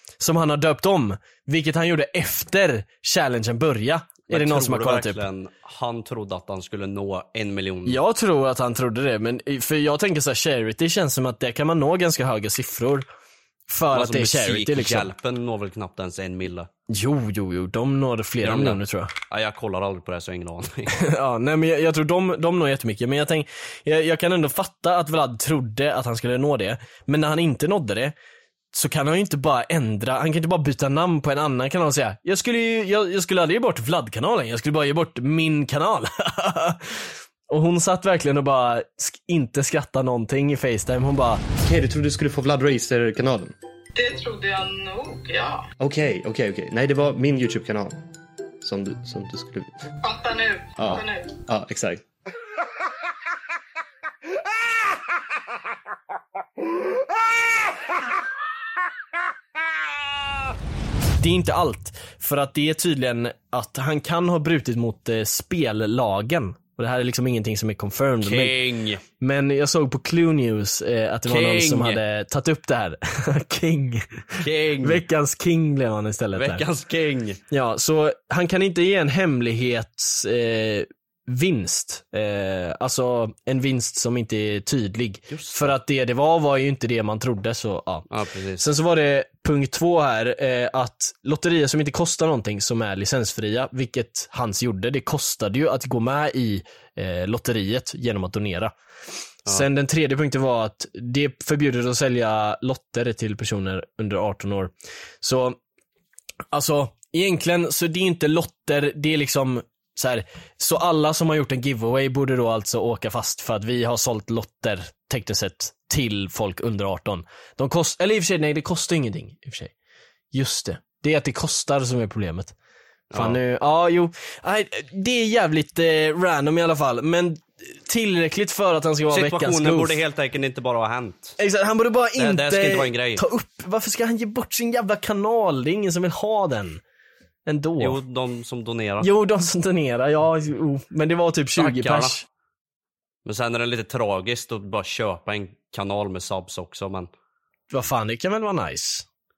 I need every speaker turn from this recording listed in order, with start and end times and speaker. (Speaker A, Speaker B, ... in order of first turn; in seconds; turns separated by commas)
Speaker A: 0.2-5.2, Speaker B: 4.3-8.0, Speaker A: 7.8-13.1, Speaker A: 13.7-15.1, Speaker B: 13.9-16.7, Speaker A: 16.9-19.1, Speaker B: 18.4-20.9, Speaker A: 20.9-28.1, Speaker A: 28.7-41.4, Speaker C: 41.6-43.5, Speaker D: 43.9-45.6, Speaker C: 45.8-48.0, Speaker C: 48.6-49.9, Speaker D: 50.0-51.4, Speaker C: 50.8-52.0, Speaker A: 61.2-68.6, Speaker B: 68.2-69.0, Speaker A: 69.2-76.6, Speaker B: 71.3-72.0, Speaker B: 74.4-75.0, Speaker B: 76.3-77.4, Speaker A: 77.5-88.1, Speaker B: 85.3-85.7, Speaker B: 88.1-88.6, Speaker A: 88.6-98.7, Speaker A: 99.5-105.6, Speaker A: 106.5-119.7, Speaker A: 120.3-122.5, Speaker B: 123.1-123.4, Speaker A: 123.1-130.0, Speaker B: 129.1-131.4, Speaker A: 131.4-136.8, Speaker B: 132.2-133.2, Speaker A: 137.4-138.0, Speaker B: 137.8-139.1, Speaker A: 139.0-142.2, Speaker B: 141.6-142.2, Speaker B: 143.2-147.1, Speaker A: 147.7-149.1